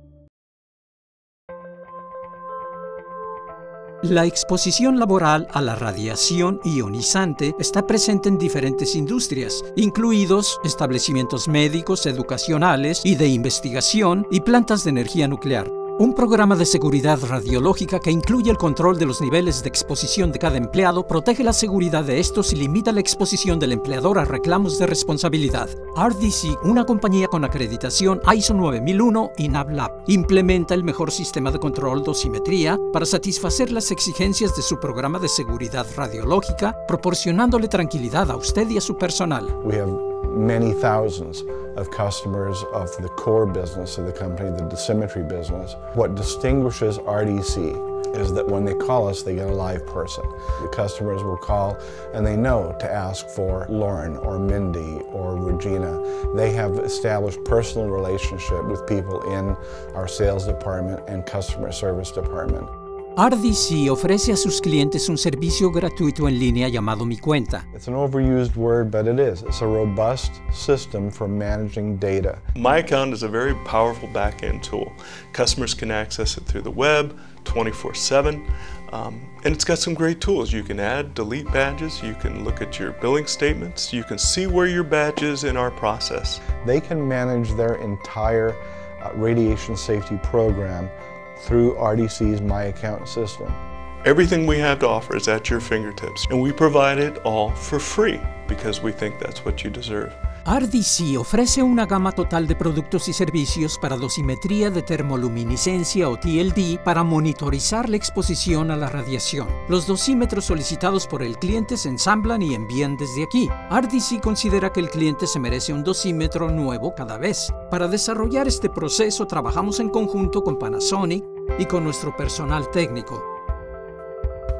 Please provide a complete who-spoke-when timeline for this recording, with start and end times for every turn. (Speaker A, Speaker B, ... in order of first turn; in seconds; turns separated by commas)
Speaker A: 4.0-39.5, Speaker B: 39.6-62.7, Speaker A: 63.2-67.7, Speaker B: 67.7-72.4, Speaker C: 72.5-86.4, Speaker B: 86.6-93.6, Speaker C: 94.0-100.2, Speaker A: 100.5-123.2